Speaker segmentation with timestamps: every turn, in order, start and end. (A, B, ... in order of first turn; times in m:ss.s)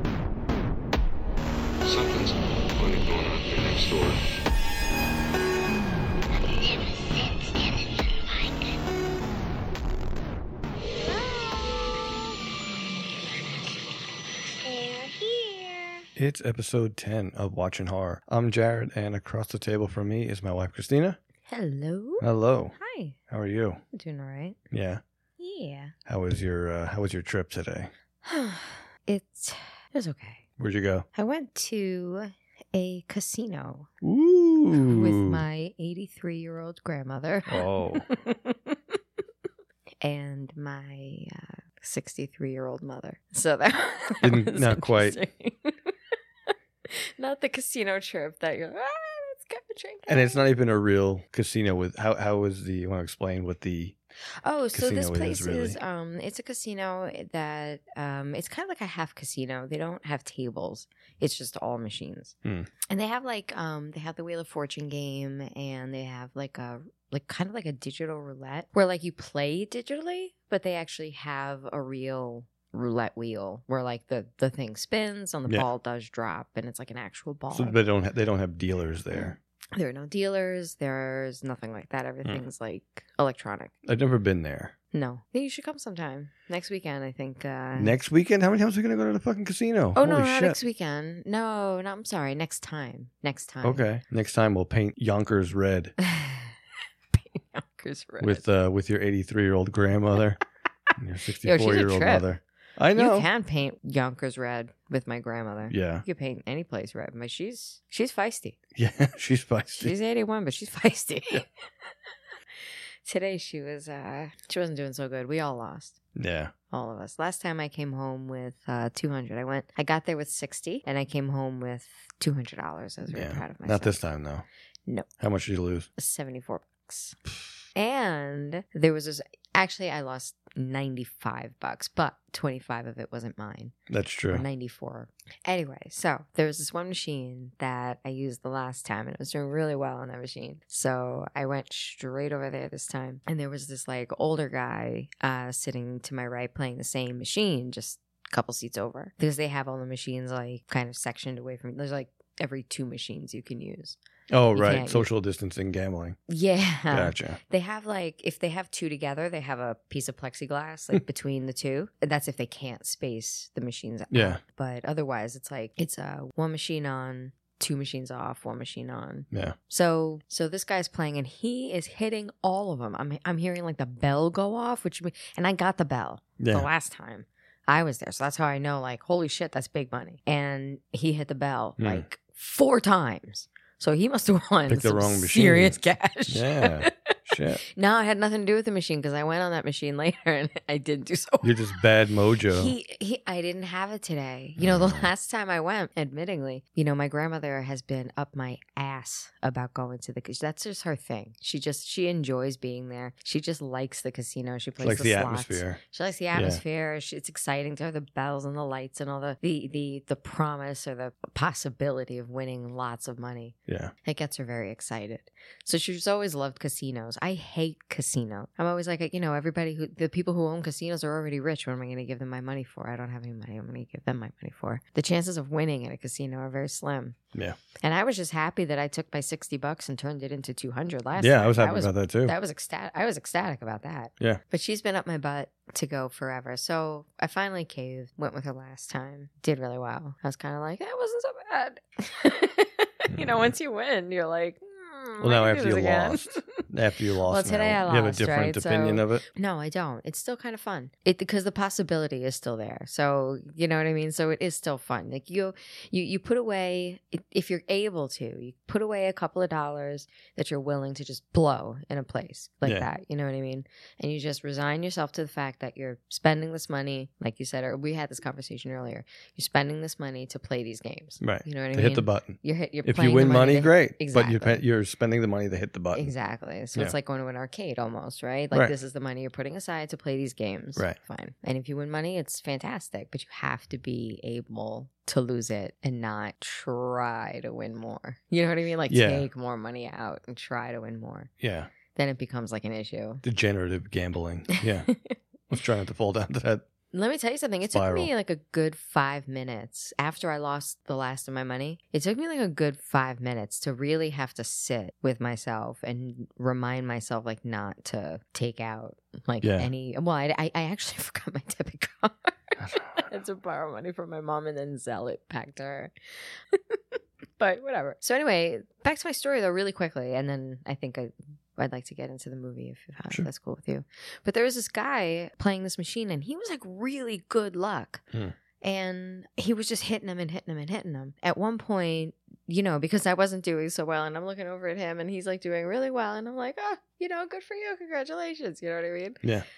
0:01.8-0:04.2 A
0:06.4-0:08.8 B
0:11.0-0:12.3 B
0:14.6-0:16.1 B
0:16.2-0:21.2 C
0:21.5-0:23.2 D
0:22.2-0:22.8 C
0:23.3-0:23.8 C
0:23.9-0:24.6 D
0:24.7-0:25.0 C
0:25.4-0:25.9 D
0:26.1-0:27.9 C
0:28.2-0:30.4 D
0:30.6-0:31.1 C
0:31.1-0:33.9 D
0:34.0-0:35.4 C
0:34.8-0:38.8 D
0:37.5-0:38.1 C
0:40.0-0:45.8 D
0:44.2-0:45.2 C
0:46.9-0:50.5 D
0:50.1-0:54.0 C
0:54.4-1:02.4 D
0:54.7-0:55.8 C
1:02.4-1:02.7 C
1:02.9-1:17.8 D
1:17.5-1:19.4 C
1:19.1-1:23.7 D
1:23.8-1:24.7 C
1:24.9-1:28.0 D
1:27.8-1:30.6 C
1:30.0-1:33.8 D
1:33.6-1:36.0 C
1:36.0-1:36.5 D
1:37.1-1:38.4 D
1:38.2-1:40.4 C
1:41.0-1:43.3 C
1:41.4-1:42.3 D
1:42.9-1:48.6 D
1:45.7-1:46.0 C
1:48.8-1:50.0 C
1:49.7-1:51.5 D
1:53.0-1:56.0 D
1:56.2-1:56.5 C
1:56.7-2:04.0 D
2:03.1-2:04.4 C
2:05.2-2:05.9 C
2:06.0-2:07.2 D
2:07.8-2:13.8 D
2:13.9-2:14.4 C
2:14.3-2:34.0 D
2:34.3-2:36.2 C
2:34.5-2:35.1 D
2:36.3-3:07.1 D
2:36.9-2:37.4 C
2:44.1-2:44.4 C
2:56.4-2:56.7 C
3:01.8-3:02.0 C
3:04.7-3:05.8 C
3:06.3-3:07.6 C
3:07.6-3:11.9 D
3:11.4-3:12.7 C
3:12.5-3:47.2 D
3:14.6-3:15.0 C
3:24.8-3:25.8 C
3:26.3-3:26.6 C
3:33.7-3:33.9 C
3:47.8-4:06.6 D
3:51.2-3:52.4 C
4:03.1-4:03.5 C
4:05.2-4:09.2 C
4:07.3-4:34.6 D
4:31.2-4:36.1 C
4:35.9-4:51.3 D
4:48.9-4:49.3 C
4:51.4-4:51.7 C
4:51.9-4:53.2 D
4:53.2-4:54.9 C
4:54.6-4:55.2 D
4:55.5-4:56.6 C
4:56.9-5:12.3 D
4:57.7-4:58.1 C
5:09.4-5:09.7 C
5:12.6-5:13.1 C
5:13.0-5:15.9 D
5:16.5-5:28.0 D
5:28.6-5:39.2 D